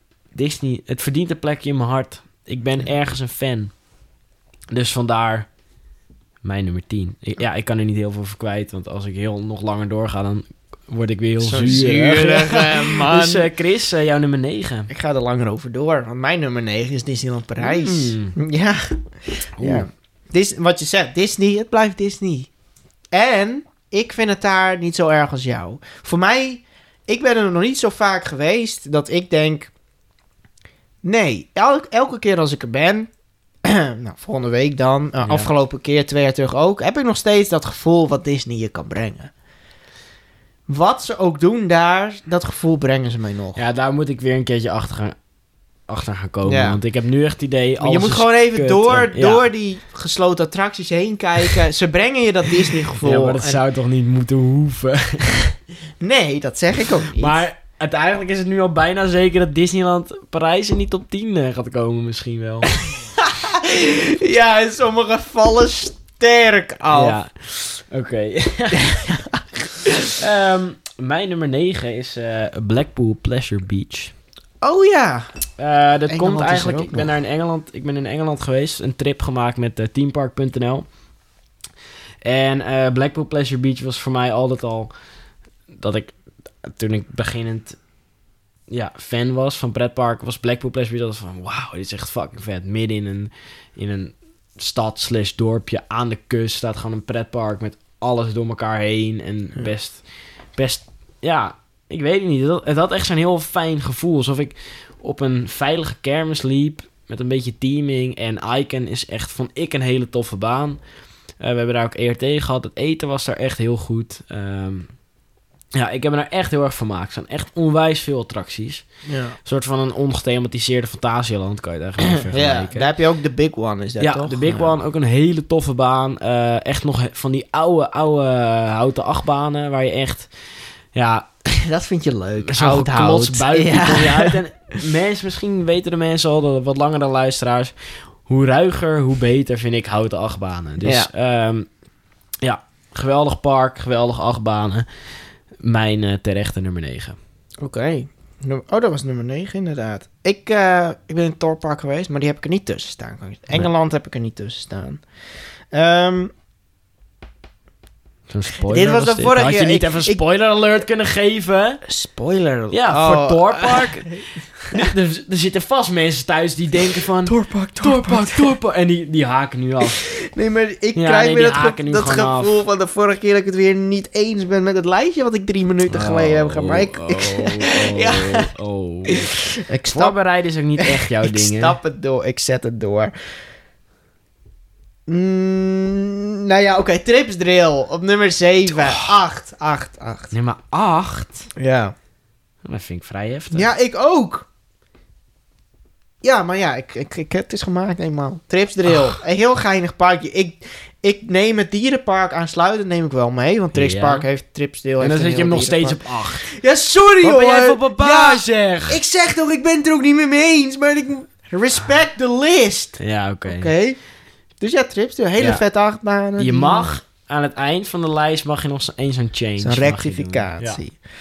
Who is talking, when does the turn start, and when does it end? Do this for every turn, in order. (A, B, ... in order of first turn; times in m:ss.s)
0:00.3-0:03.7 A
0:04.7-0:05.5 A
0:06.4-0:14.9 A
0:11.4-0:13.5 B
0:14.9-0:22.5 B
0:17.6-0:18.4 A
0:19.6-0:19.9 A
0:23.1-0:29.7 B
0:31.0-0:33.1 B
0:33.6-0:39.3 B
0:35.2-0:35.5 A
0:40.7-0:43.6 B
0:43.6-0:45.2 A
0:45.9-0:49.4 A
0:46.4-0:46.8 B
0:47.8-0:53.6 B
0:53.0-0:55.4 A
0:56.0-0:57.4 B
0:57.2-1:02.7 A
1:02.8-1:07.2 B
1:06.9-1:09.0 A
1:08.7-1:10.1 B
1:10.0-1:14.1 A
1:14.6-1:15.3 B
1:15.6-1:20.8 A
1:16.1-1:17.1 B
1:22.2-1:24.9 A
1:25.8-1:27.8 A
1:28.7-1:40.0 A
1:40.6-1:50.8 A
1:51.4-1:54.9 A
1:55.7-1:58.9 A
1:59.0-1:59.4 B
1:59.4-2:02.9 A
2:02.0-2:04.8 B
2:04.0-2:10.3 A
2:10.9-2:11.3 A
2:11.4-2:14.4 B
2:12.4-2:17.7 A
2:18.2-2:21.7 A
2:20.8-2:21.1 B
2:22.4-2:24.8 A
2:25.6-2:27.2 A
2:27.6-2:35.0 B
2:35.7-2:36.3 B
2:38.3-2:41.8 A
2:38.6-2:40.2 B
2:41.8-2:44.9 B
2:42.7-2:50.0 A
2:46.8-2:48.5 B
2:50.0-2:58.5 B
2:50.9-2:52.6 A
2:55.9-3:01.8 A
2:59.0-3:00.2 B
3:00.8-3:03.1 B
3:05.1-3:10.3 B
3:08.8-3:09.1 A
3:10.3-3:11.5 A
3:11.6-3:11.9 B
3:12.6-3:13.7 A
3:13.5-3:14.5 B
3:16.2-3:34.0 B
3:23.7-3:24.2 A
3:25.0-3:26.5 A
3:27.2-3:29.0 A
3:33.0-3:33.7 A
3:34.6-3:37.0 B
3:36.4-3:40.8 A
3:39.6-3:41.0 B